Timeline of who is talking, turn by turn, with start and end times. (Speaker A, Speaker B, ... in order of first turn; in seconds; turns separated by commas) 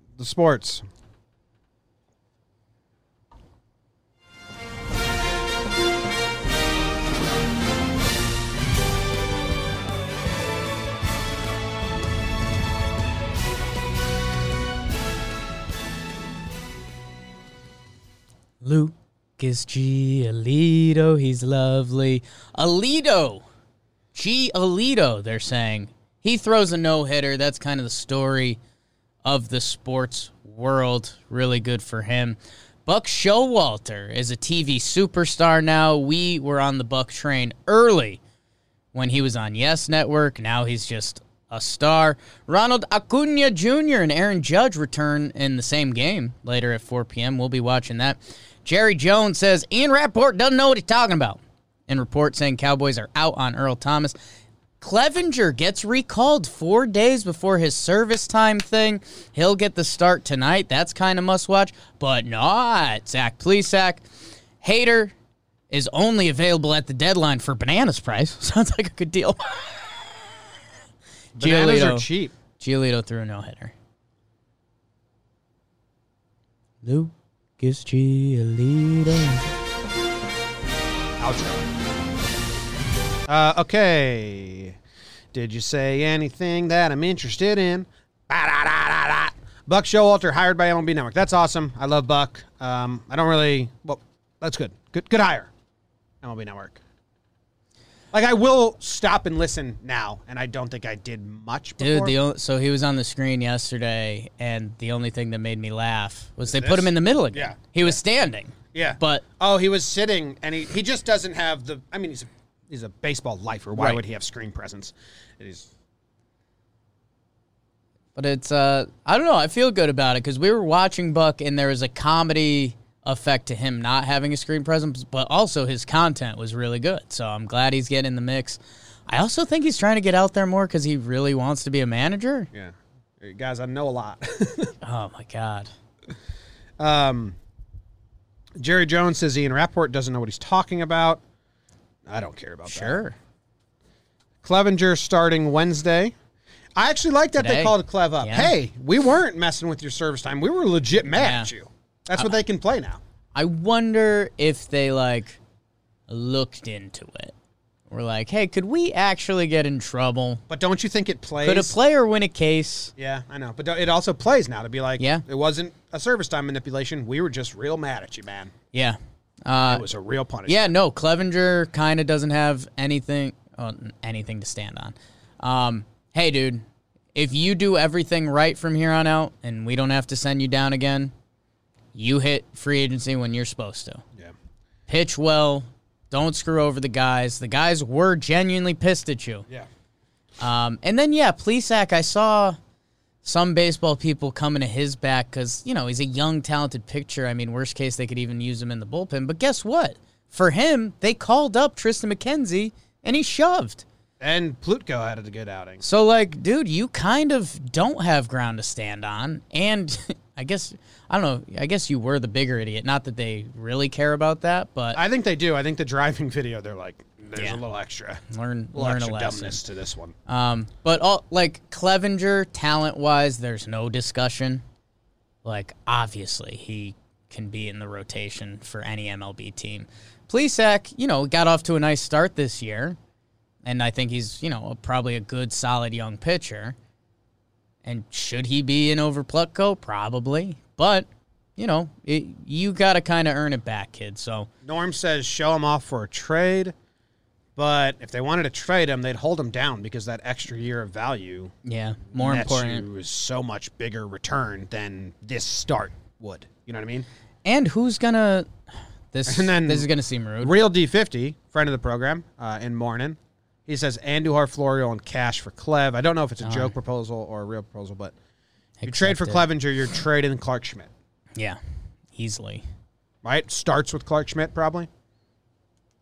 Speaker A: 0.2-0.8, Speaker B: 18.6-23.4, Speaker B: 24.1-28.6, Speaker B: 29.2-38.2, Speaker B: 38.9-54.1, Speaker B: 54.8-64.0, Speaker B: 64.6-65.1, Speaker B: 65.7-69.9, Speaker A: 71.3-72.3, Speaker B: 71.4-73.7, Speaker B: 76.8-79.5, Speaker A: 81.2-81.7, Speaker A: 83.3-84.8, Speaker A: 85.3-95.5, Speaker A: 96.2-96.8, Speaker A: 98.1-102.2, Speaker B: 101.8-109.2, Speaker A: 106.4-108.0, Speaker A: 108.7-115.7, Speaker B: 113.8-114.0, Speaker B: 118.2-132.5, Speaker A: 132.5-134.7, Speaker B: 134.8-135.7, Speaker A: 136.8-137.4, Speaker A: 138.6-141.2, Speaker A: 142.1-143.0, Speaker B: 142.7-143.2, Speaker A: 144.4-146.1, Speaker A: 146.8-153.0, Speaker B: 147.3-148.5, Speaker B: 151.2-151.5, Speaker B: 153.3-155.4, Speaker B: 156.1-157.3, Speaker B: 157.9-160.4, Speaker A: 160.5-161.8, Speaker B: 161.4-162.9, Speaker A: 163.0-168.5, Speaker B: 165.0-165.2, Speaker B: 168.7-169.8, Speaker A: 169.6-170.7, Speaker B: 170.5-181.1, Speaker B: 181.9-184.0, Speaker B: 184.9-189.4, Speaker B: 190.4-192.6, Speaker B: 193.2-203.8, Speaker A: 204.2-205.8, Speaker B: 205.8-215.0, Speaker A: 214.9-220.1, Speaker B: 217.3-217.6, Speaker B: 218.3-219.6, Speaker B: 220.3-224.6, Speaker B: 225.4-233.0, Speaker B: 233.6-236.8, Speaker B: 237.8-244.5, Speaker A: 244.6-246.7, Speaker A: 247.6-251.5, Speaker B: 251.6-252.8, Speaker A: 252.1-257.1, Speaker B: 257.4-258.5, Speaker B: 259.1-260.6, Speaker A: 259.2-259.9, Speaker A: 260.4-268.1, Speaker B: 266.4-266.7, Speaker B: 268.8-269.5, Speaker A: 268.8-270.9, Speaker B: 272.1-272.6, Speaker A: 273.2-274.9